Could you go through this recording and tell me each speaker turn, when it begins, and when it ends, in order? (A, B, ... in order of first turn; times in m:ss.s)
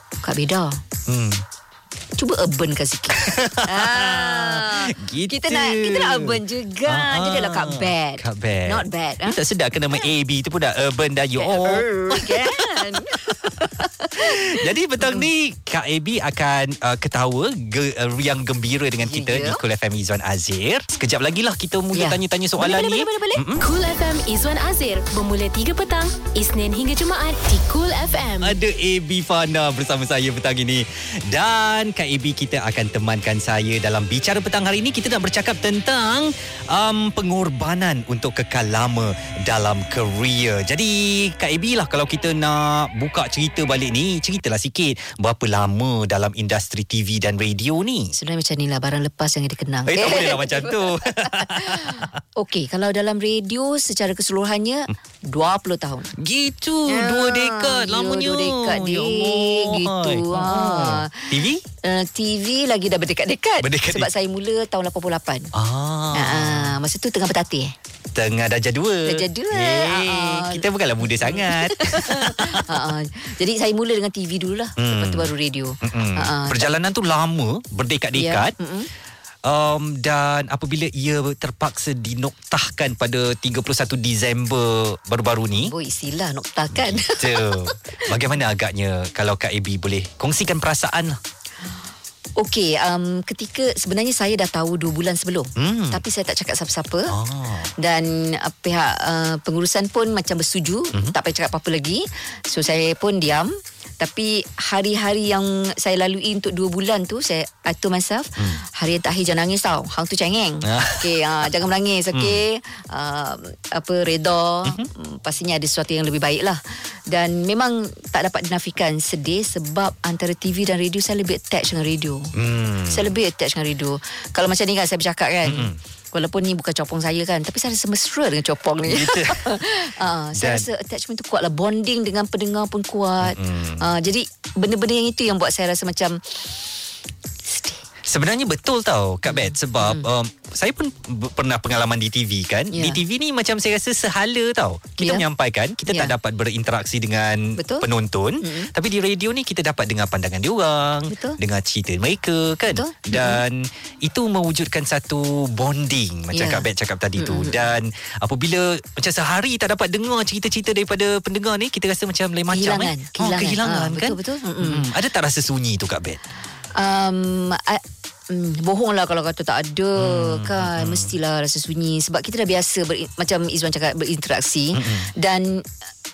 0:00.2-0:00.8 A
0:01.1-0:01.4 B
0:02.2-0:09.4 A
0:03.2-0:13.5 B
0:11.4-0:15.3 A
0:14.2-0:23.6 B
0:19.0-0:19.6 A
0:21.9-0:23.4 A
0:23.6-0:28.6 C
0:28.4-0:48.1 B
0:48.1-0:56.1 A
0:49.9-0:52.2 B
0:56.2-1:01.6 B
0:56.9-1:05.5 A
1:03.6-1:04.1 B
1:05.6-1:06.8 B
1:06.1-1:07.7 A
1:08.2-1:12.9 B
1:09.1-1:16.7 A
1:14.8-1:15.3 B
1:15.8-1:18.5 B
1:18.2-1:18.9 A
1:19.5-1:25.7 B
1:25.6-1:28.2 A
1:26.7-1:31.2 B
1:32.4-1:37.1 A
1:35.6-1:36.0 B
1:37.1-1:37.7 B
1:37.8-1:56.6 A
1:50.6-1:51.1 B
1:52.1-1:52.4 B
1:57.1-2:02.3 A
2:02.4-2:03.1 B
2:02.9-2:16.5 A
2:05.4-2:05.8 B
2:08.9-2:09.5 B
2:10.4-2:10.7 B
2:13.2-2:13.8 B
2:17.5-2:17.8 A
2:18.1-2:46.2 B
2:19.3-2:20.1 A
2:22.7-2:23.0 A
2:25.0-2:25.2 A
2:25.9-2:26.1 A
2:27.6-2:27.9 A
2:28.4-2:28.7 A
2:31.1-2:31.4 A
2:32.7-2:33.4 A
2:36.3-2:37.7 A
2:42.5-2:44.9 A
2:46.8-2:55.6 A
2:50.0-2:51.1 B
2:54.8-2:55.1 B